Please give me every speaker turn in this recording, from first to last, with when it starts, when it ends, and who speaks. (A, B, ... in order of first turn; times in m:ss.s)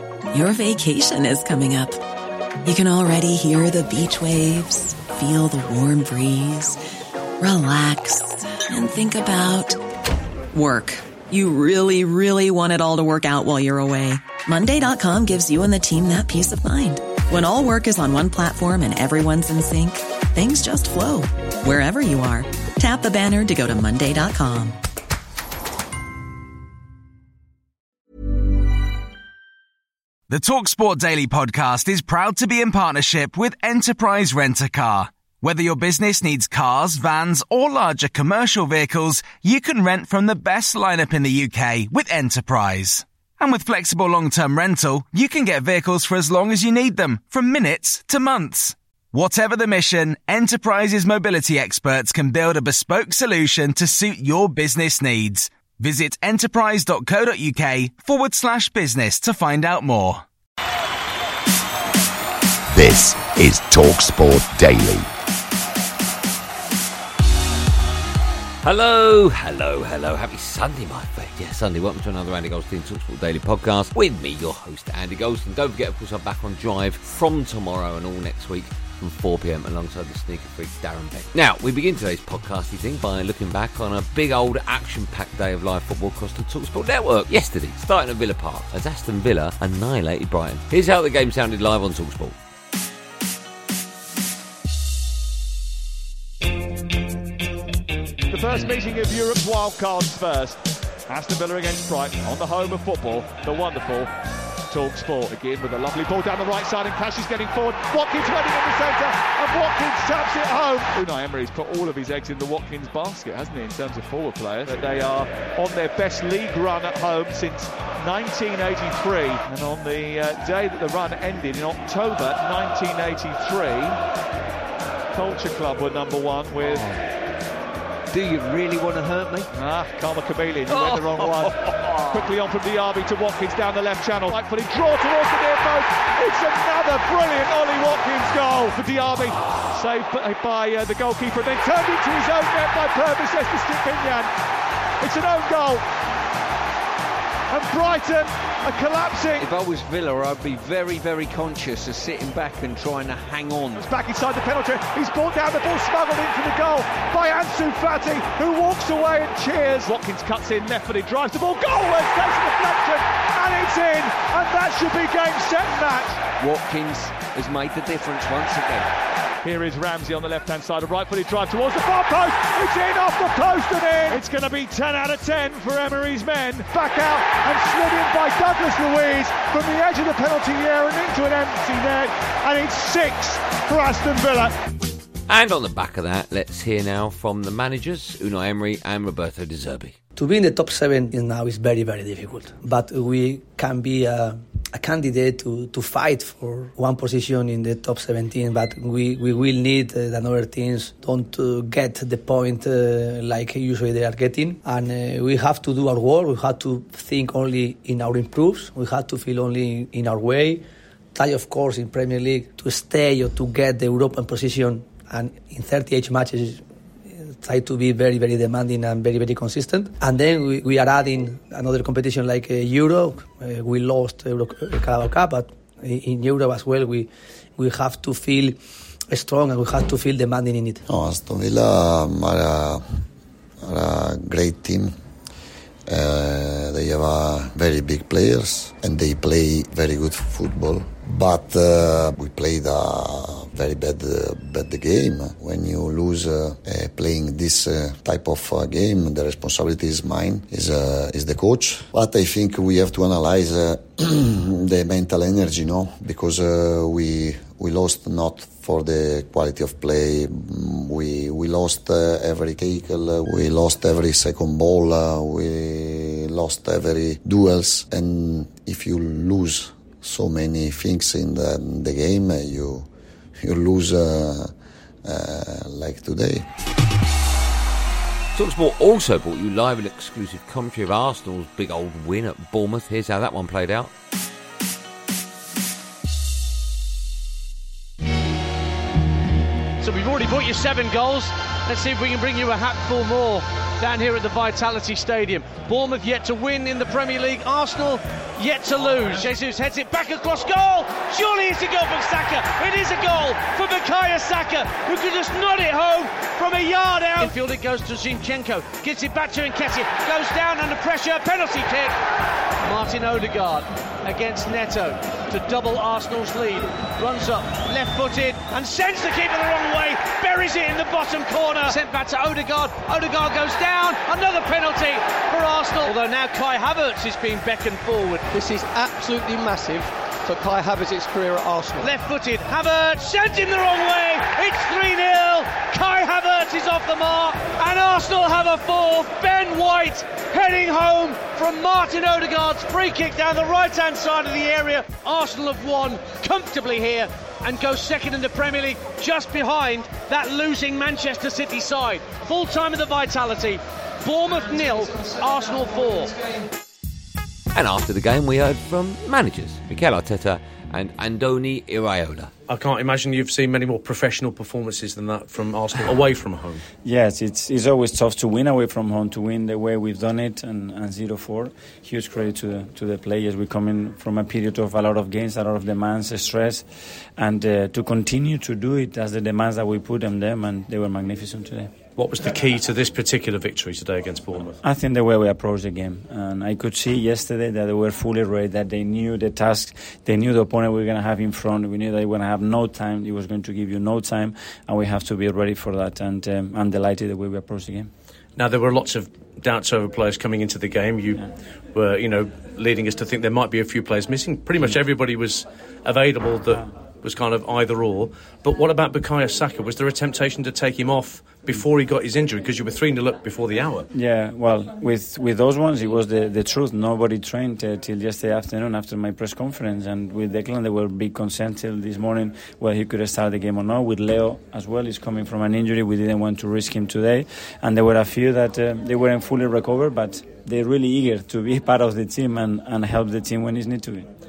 0:00.3-0:01.9 A
0:02.6-0:06.7 A
0:07.4-0:09.7 A
0:10.5-0:24.7 A
0:30.3-1:00.2 B
1:02.7-1:05.0 C
1:08.6-1:32.3 D
1:38.3-1:40.6 E
1:41.1-1:44.1 E
1:44.7-2:03.9 E
2:05.2-2:06.8 E
2:08.1-2:09.5 F
2:09.6-2:11.5 E
2:10.7-2:12.3 F
2:12.2-2:24.3 E
2:25.0-2:25.8 E
2:27.5-2:29.4 E
2:29.4-2:33.8 F
2:33.8-2:46.2 E
2:46.4-2:48.9 F
2:49.4-3:04.5 E
3:05.3-3:09.9 D
3:10.2-3:30.6 G
3:31.1-3:36.6 G
3:37.2-3:48.6 G
3:49.1-3:50.8 G
3:50.9-3:52.8 H
3:53.6-3:54.9 H
3:55.9-4:32.9 H
4:33.4-4:34.5 H
4:35.0-4:36.4 H
4:38.3-4:43.9 D
4:49.8-5:11.9 I
5:12.6-5:28.3 I
5:28.3-5:31.9 F
5:31.8-5:56.1 I
5:57.5-6:02.3 D
6:02.5-6:06.6 J
6:06.8-6:16.6 K
6:17.2-6:21.7 K
6:22.0-6:24.6 J
6:24.6-6:37.9 K
6:38.4-6:53.8 J
6:53.9-7:14.0 K